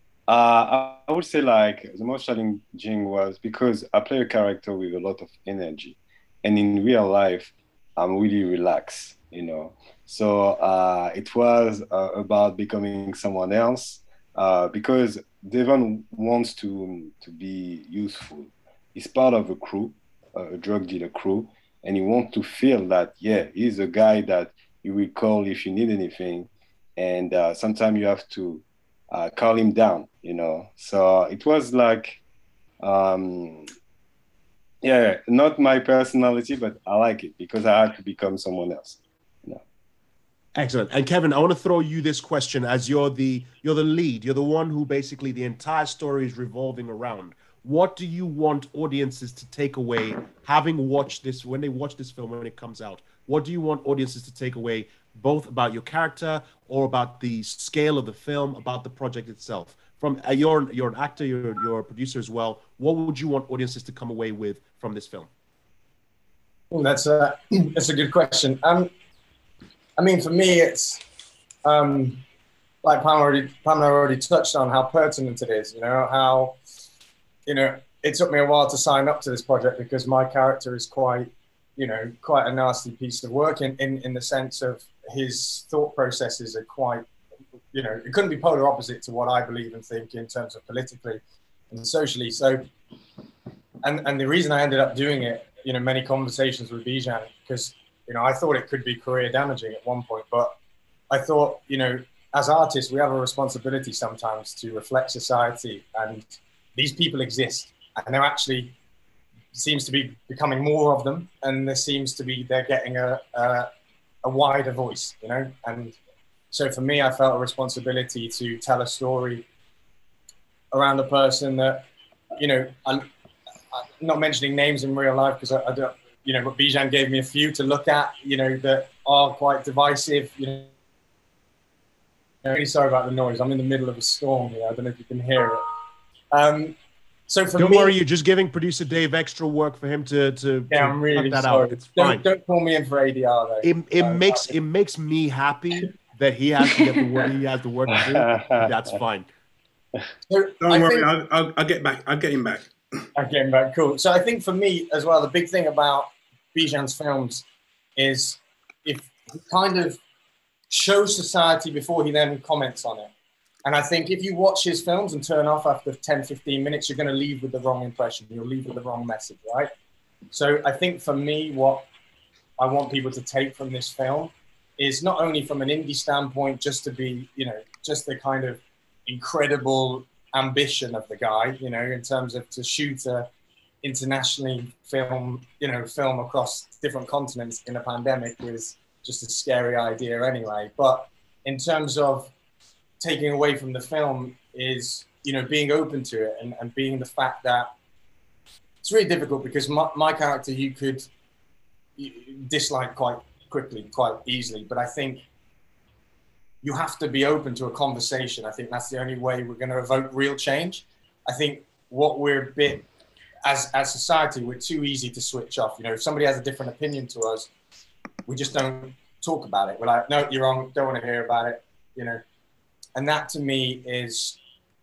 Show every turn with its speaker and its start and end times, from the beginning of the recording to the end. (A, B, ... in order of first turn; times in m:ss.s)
0:00.3-0:32.2 A
0:32.8-0:33.7 A
0:34.8-0:39.6 A
0:40.6-1:05.3 B
1:06.7-1:08.9 C
1:10.0-1:11.0 C
1:11.6-1:12.2 C
1:12.8-1:16.6 C
1:17.5-1:27.1 C
1:27.7-1:32.7 C
1:33.8-1:40.6 C
1:41.1-1:48.8 C
1:49.5-1:53.7 C
1:54.2-1:56.0 C
1:56.5-1:59.4 C
2:00.7-2:01.9 C
2:02.4-2:03.1 C
2:03.7-2:10.7 C
2:12.4-2:15.7 C
2:16.3-2:16.8 C
2:17.3-2:18.0 C
2:17.6-2:22.2 B
2:20.7-2:24.5 C
2:23.6-2:29.3 B
2:28.0-2:28.6 A
2:30.3-2:31.1 C
2:30.6-2:32.7 D
2:33.2-2:37.4 C
2:38.0-2:40.0 C
2:40.7-2:43.1 C
2:43.6-2:49.7 C
2:50.3-2:51.9 C
2:52.6-3:03.3 C
3:03.8-3:12.3 C
3:13.0-3:17.7 C
3:18.8-3:21.1 C
3:22.0-3:25.3 C
3:26.6-3:32.9 C
3:33.4-3:37.5 C
3:38.3-3:42.2 C
3:43.0-3:44.4 C